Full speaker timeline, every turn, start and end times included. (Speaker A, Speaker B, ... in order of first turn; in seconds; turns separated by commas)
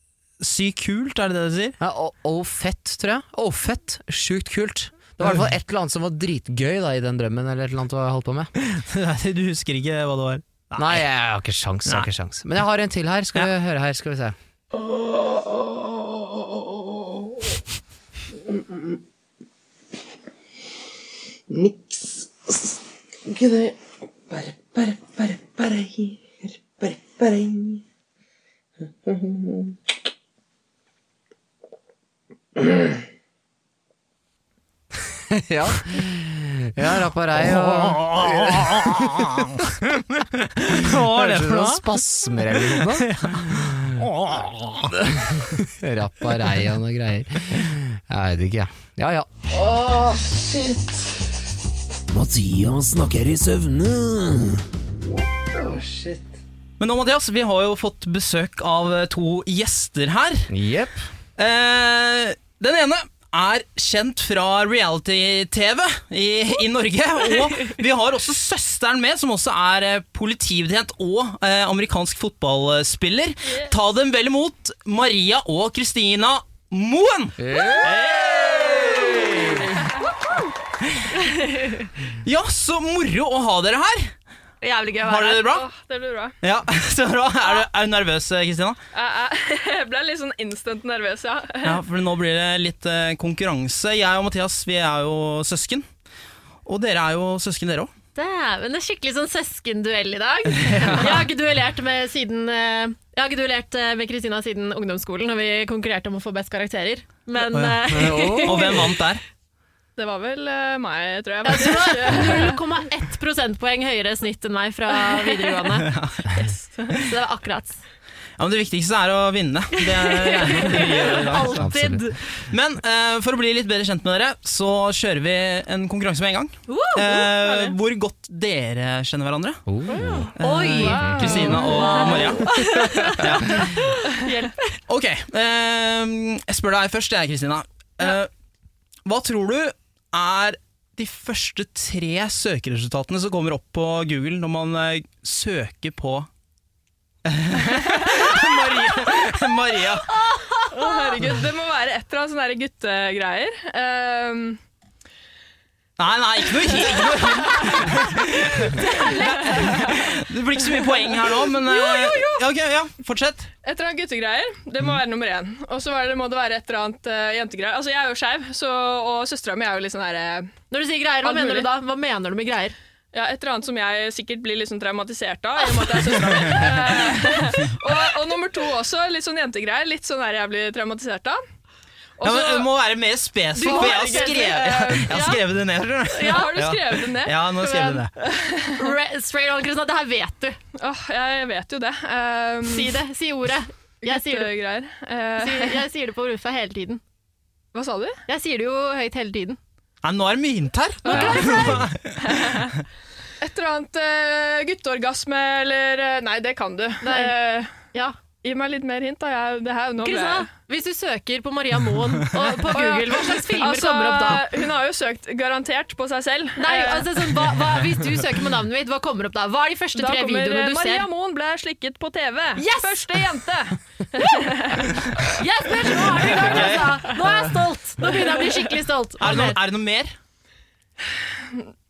Speaker A: 0.4-1.8, Speaker B: 1.8-8.5, Speaker A: 8.6-11.1, Speaker B: 10.8-14.3, Speaker C: 14.8-16.9, Speaker C: 18.5-18.9, Speaker C: 21.5-27.8, Speaker C: 29.0-29.8, Speaker B: 35.1-39.3, Speaker A: 37.4-42.0, Speaker B: 40.8-44.0, Speaker A: 42.5-45.0, Speaker B: 45.0-49.3, Speaker C: 49.5-51.3, Speaker D: 52.1-54.6, Speaker C: 55.6-56.3, Speaker A: 56.8-60.5, Speaker B: 60.5-61.0, Speaker A: 61.4-79.8, Speaker E: 73.4-73.7, Speaker B: 77.4-78.2, Speaker B: 78.8-79.7, Speaker F: 81.2-81.9, Speaker A: 82.2-84.1, Speaker F: 84.6-85.5, Speaker A: 85.0-85.6, Speaker E: 85.5-86.4, Speaker A: 86.4-88.8, Speaker E: 88.9-91.8, Speaker A: 91.6-95.9, Speaker A: 96.6-97.9, Speaker F: 98.2-109.0, Speaker A: 100.5-101.2, Speaker A: 107.5-109.2, Speaker B: 107.9-108.8, Speaker E: 110.0-112.6, Speaker F: 111.4-117.8, Speaker E: 114.9-115.6, Speaker A: 115.8-117.0, Speaker A: 118.4-121.7, Speaker F: 119.8-122.3, Speaker B: 121.6-122.0, Speaker A: 122.4-129.6, Speaker F: 126.7-127.3, Speaker E: 127.2-127.8, Speaker B: 129.7-130.3, Speaker E: 129.9-134.6, Speaker A: 130.4-134.0, Speaker F: 130.4-134.0, Speaker B: 131.0-131.3, Speaker A: 134.9-138.3, Speaker A: 139.1-146.3, Speaker A: 147.2-150.2, Speaker F: 150.1-151.2, Speaker E: 150.7-154.6, Speaker A: 156.0-163.5, Speaker E: 156.9-157.4, Speaker F: 158.5-160.0, Speaker F: 161.6-162.4, Speaker E: 163.6-170.5, Speaker F: 170.7-172.8, Speaker E: 171.2-171.7, Speaker E: 173.1-181.4, Speaker F: 175.8-176.7, Speaker E: 182.2-182.7, Speaker A: 182.2-188.1, Speaker F: 183.6-185.4, Speaker E: 183.6-185.3, Speaker F: 186.1-186.5, Speaker E: 186.1-188.9, Speaker F: 188.7-190.6, Speaker E: 190.8-192.9, Speaker F: 192.7-194.5, Speaker E: 194.0-195.8, Speaker F: 195.4-197.0, Speaker E: 197.7-198.2, Speaker F: 198.3-199.6, Speaker A: 200.0-202.6, Speaker F: 201.0-201.9, Speaker E: 201.1-201.7, Speaker E: 202.2-202.8, Speaker E: 203.4-207.7, Speaker F: 207.0-208.2, Speaker E: 208.4-210.5, Speaker F: 210.0-214.4, Speaker E: 212.7-217.5, Speaker F: 216.6-221.1, Speaker E: 219.9-225.0, Speaker F: 222.6-223.0, Speaker F: 224.2-224.5, Speaker F: 225.2-229.6, Speaker A: 226.1-227.2, Speaker E: 226.3-226.6, Speaker E: 228.0-228.7, Speaker A: 229.2-230.2